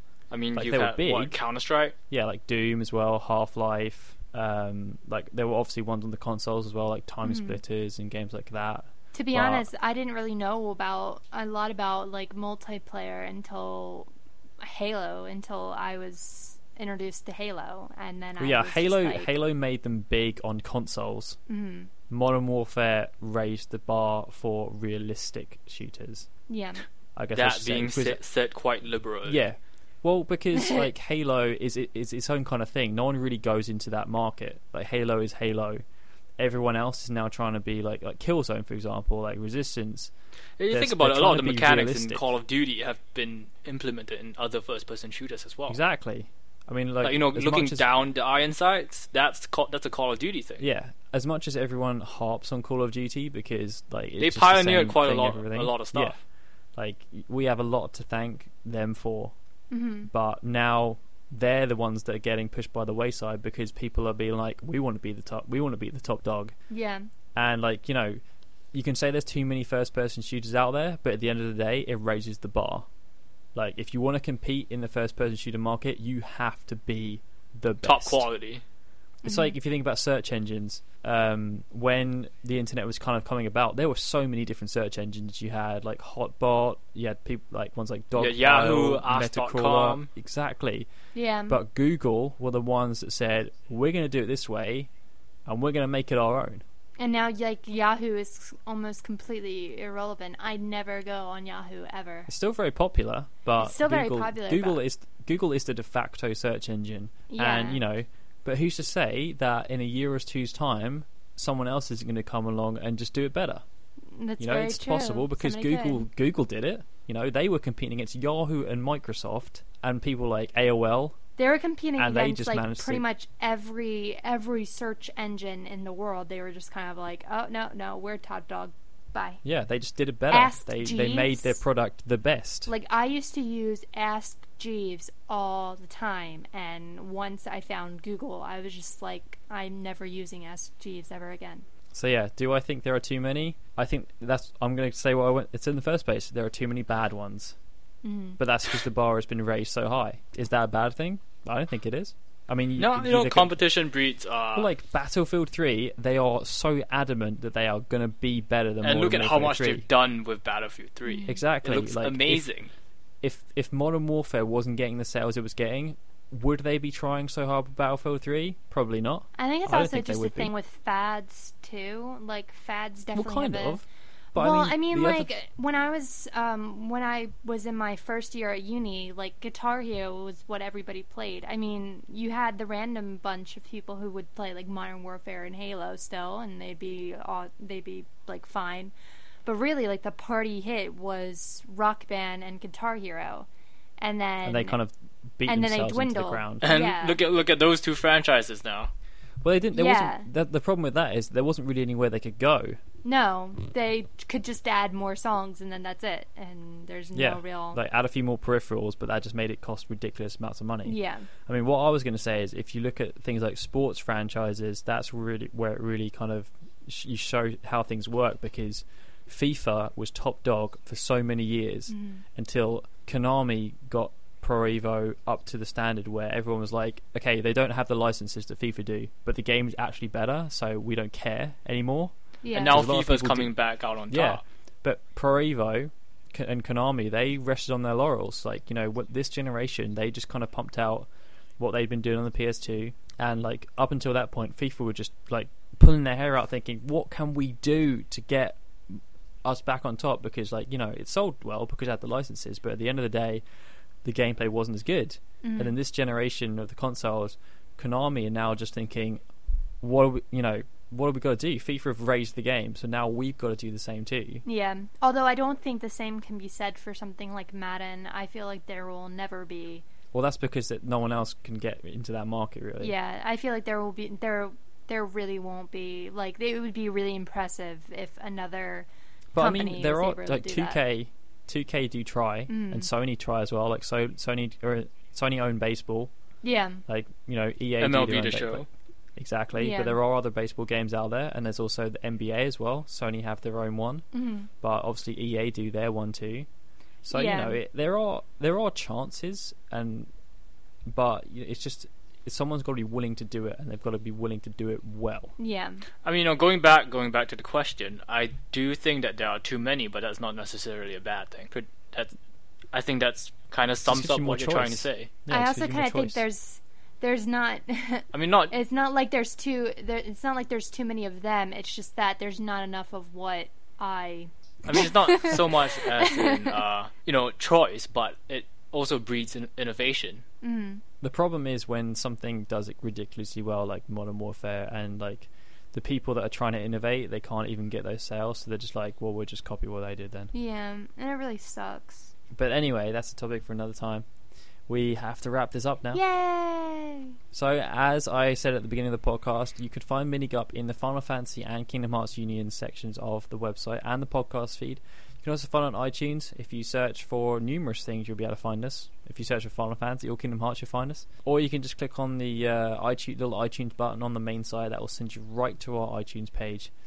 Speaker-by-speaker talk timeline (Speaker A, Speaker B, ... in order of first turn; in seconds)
Speaker A: 0.3-1.9, 27.4-29.4, 40.6-45.8, 47.0-50.6, 54.2-56.2, 77.8-78.6, 88.2-90.1, 152.8-154.7, 158.8-162.7, 196.6-198.9, 232.5-234.4, 287.8-288.7, 306.0-312.1, 312.7-315.1, 318.1-318.5, 324.6-330.2
Speaker B: 0.6-1.4, 2.1-9.7, 18.4-21.4, 22.1-26.3, 27.2-28.2, 29.3-35.8, 36.4-40.1, 40.7-42.3, 45.7-47.9, 50.6-56.2, 56.8-59.3, 60.1-66.5, 67.3-68.2, 68.7-72.9, 73.5-78.3, 79.2-90.9, 91.5-94.9, 95.5-96.6, 102.3-113.6, 114.4-121.2, 122.0-123.0, 129.4-132.7, 141.9-147.6, 148.4-153.6, 154.6-159.8, 161.3-162.4, 163.2-170.5, 173.1-175.3, 194.4-196.7, 199.4-202.8, 207.2-232.1, 232.7-233.5, 234.1-241.1, 241.6-253.4, 254.0-259.2, 259.8-264.4, 270.1-272.9, 279.3-286.1, 286.9-294.1, 294.6-296.5, 297.1-300.1, 300.9-305.3, 313.9-316.2, 331.0-340.3, 342.3-344.1, 344.7-346.0, 347.3-366.7
Speaker C: 7.2-7.6, 9.1-14.1, 14.6-19.4, 21.5-21.9, 26.5-26.8, 30.6-30.9, 59.7-60.1, 66.7-67.0, 79.2-79.5, 91.1-91.6, 97.0-102.3, 103.6-104.8, 107.3-107.8, 114.1-116.0, 121.4-129.4, 130.3-131.6, 132.7-141.7, 148.0-148.4, 161.1-161.4, 169.4-173.8, 174.3-188.9, 189.4-193.5, 194.0-194.8, 195.5-197.2, 199.7-200.3, 203.0-207.8, 210.8-211.3, 221.9-222.2, 232.4-232.9, 255.4-255.8, 264.4-269.8, 272.8-280.8, 282.5-282.9, 286.4-286.8, 289.6-290.0, 294.1-294.5, 297.1-297.6, 305.4-305.8, 315.3-326.6, 330.4-330.8, 340.3-342.1, 345.9-347.2